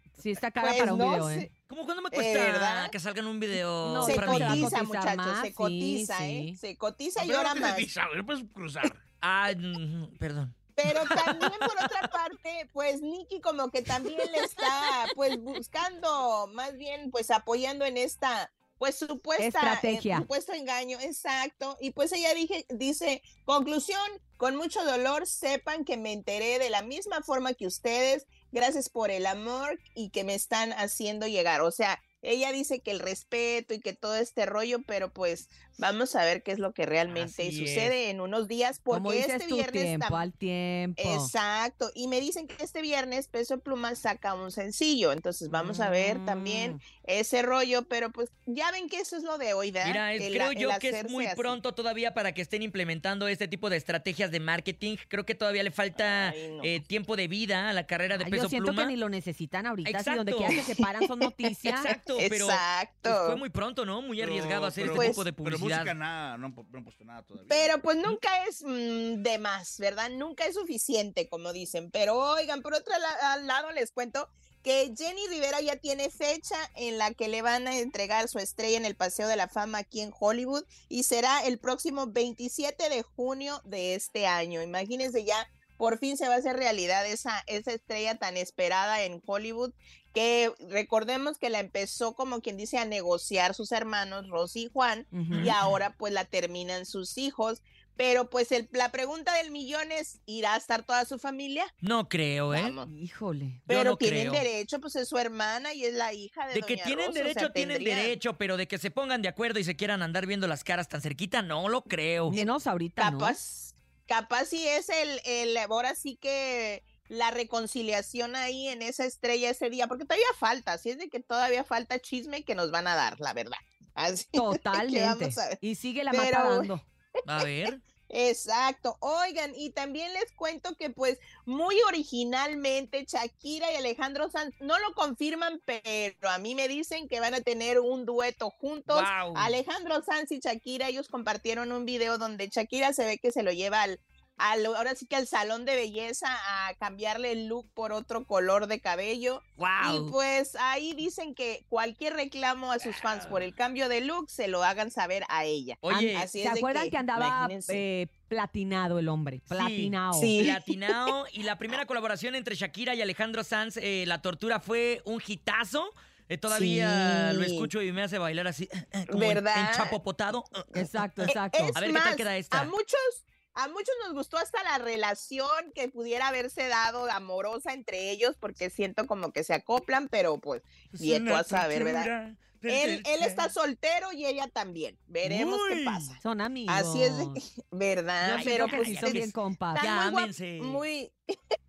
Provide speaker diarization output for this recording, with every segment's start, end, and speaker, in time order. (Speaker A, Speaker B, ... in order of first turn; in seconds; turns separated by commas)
Speaker A: 0.2-1.5, Speaker B: 0.6-1.5, Speaker C: 1.7-4.8, Speaker B: 2.1-2.9, Speaker A: 3.8-6.6, Speaker B: 4.0-7.9, Speaker D: 7.2-8.9, Speaker C: 9.2-10.5, Speaker B: 10.8-40.3, Speaker A: 19.4-20.3, Speaker C: 37.1-37.9, Speaker A: 38.9-41.3, Speaker B: 41.0-51.6, Speaker A: 45.5-46.8, Speaker C: 49.8-58.9, Speaker B: 56.0-56.8, Speaker A: 58.2-61.9, Speaker C: 59.9-60.6, Speaker B: 61.2-63.4, Speaker C: 61.6-65.9, Speaker D: 64.2-67.7, Speaker B: 64.9-65.2, Speaker B: 67.5-101.7, Speaker A: 95.1-95.5, Speaker C: 101.8-102.8, Speaker B: 102.5-102.9, Speaker A: 102.9-103.6, Speaker B: 103.7-108.2, Speaker C: 103.7-104.4, Speaker C: 106.5-112.3, Speaker B: 112.3-125.6, Speaker A: 112.3-113.4, Speaker A: 124.3-126.8, Speaker B: 126.1-126.7, Speaker C: 127.2-127.8, Speaker B: 128.1-157.8, Speaker C: 138.9-139.6, Speaker C: 149.6-150.2, Speaker C: 152.8-153.5, Speaker C: 155.8-156.3, Speaker A: 155.9-160.3, Speaker C: 159.5-172.7, Speaker B: 160.1-161.1, Speaker B: 166.5-167.7, Speaker B: 169.1-169.9, Speaker A: 170.7-171.8, Speaker B: 171.2-182.1, Speaker C: 180.9-183.5, Speaker B: 182.7-191.1, Speaker C: 185.2-186.2, Speaker A: 186.2-187.4, Speaker C: 188.2-190.8, Speaker A: 188.2-189.8